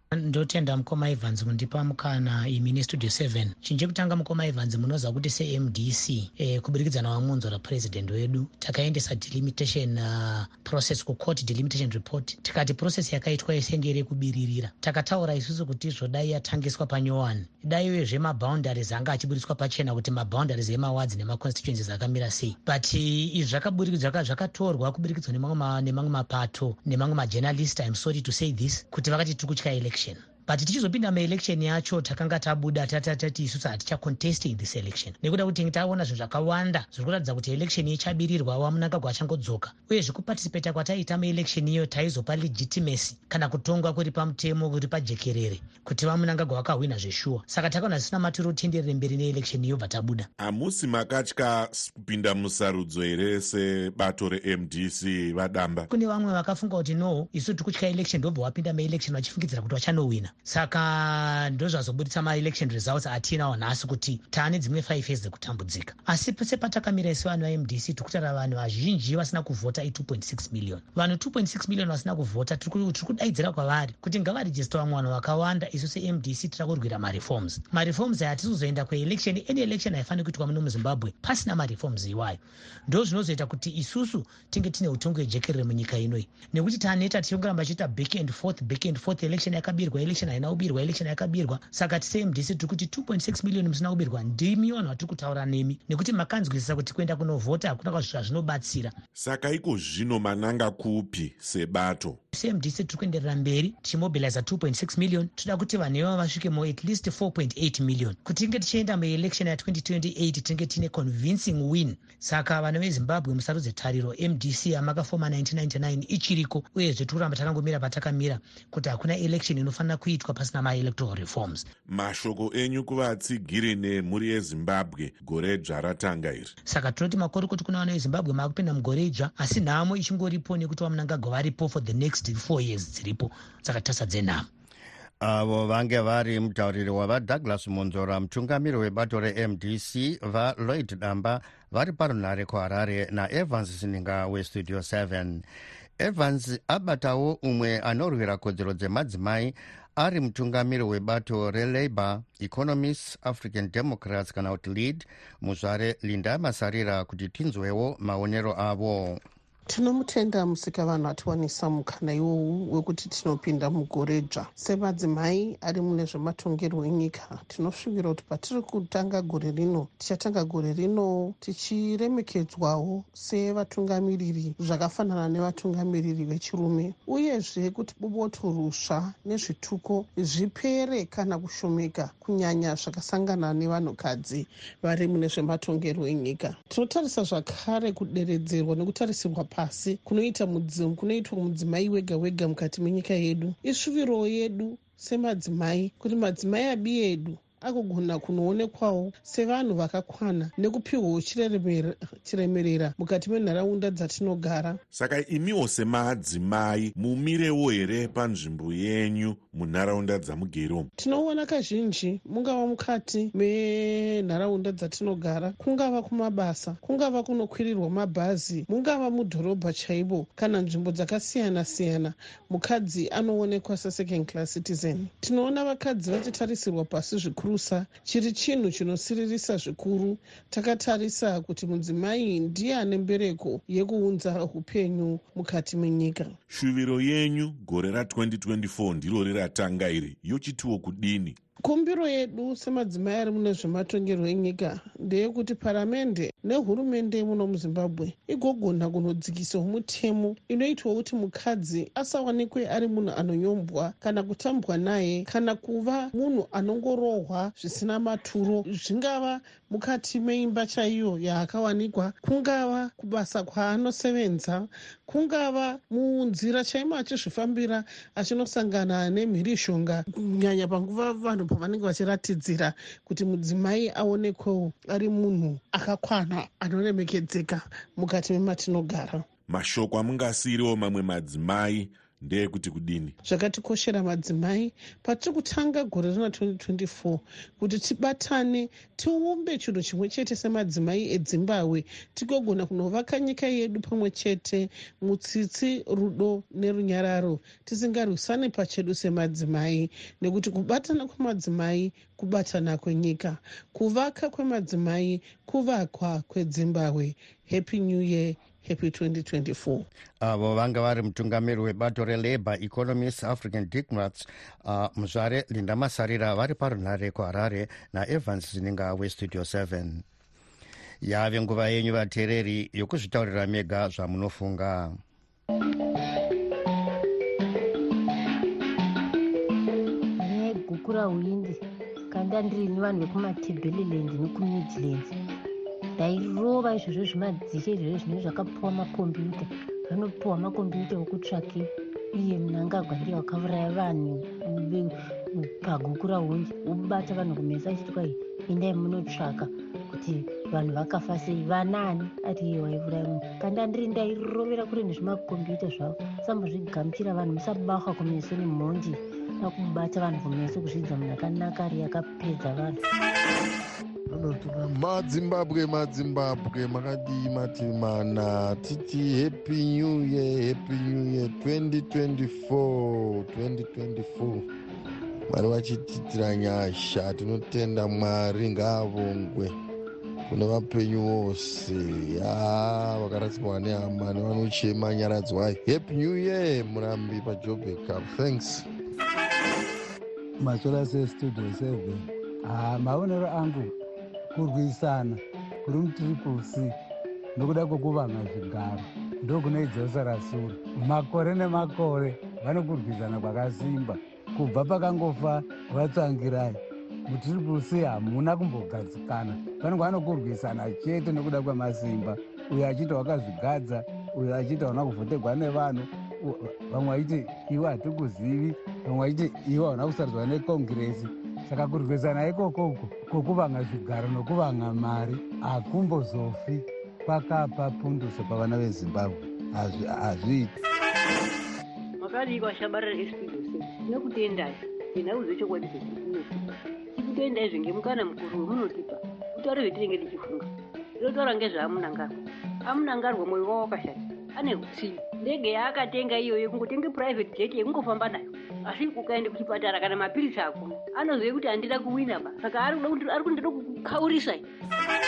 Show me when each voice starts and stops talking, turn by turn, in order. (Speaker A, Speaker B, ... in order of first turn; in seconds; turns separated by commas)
Speaker A: 0.1-50.3, Speaker B: 50.4-55.9, Speaker A: 55.9-98.9, Speaker B: 99.2-102.2, Speaker A: 102.3-121.7, Speaker B: 121.9-126.5, Speaker A: 126.7-134.5, Speaker C: 135.2-145.4, Speaker C: 146.0-159.2, Speaker D: 159.7-204.8, Speaker B: 204.9-210.9, Speaker D: 211.0-236.3, Speaker B: 236.5-241.4, Speaker D: 241.6-279.2, Speaker B: 279.5-283.1, Speaker D: 283.2-309.9, Speaker C: 310.2-320.0, Speaker C: 321.0-325.0, Speaker E: 330.2-331.6, Speaker E: 332.1-335.1, Speaker E: 336.0-362.8, Speaker F: 364.1-374.4, Speaker F: 375.3-379.5, Speaker F: 380.3-388.6, Speaker G: 390.4-393.7, Speaker G: 394.3-396.7, Speaker G: 397.4-430.5, Speaker H: 432.0-436.4, Speaker H: 436.9-440.5, Speaker H: 441.0-454.5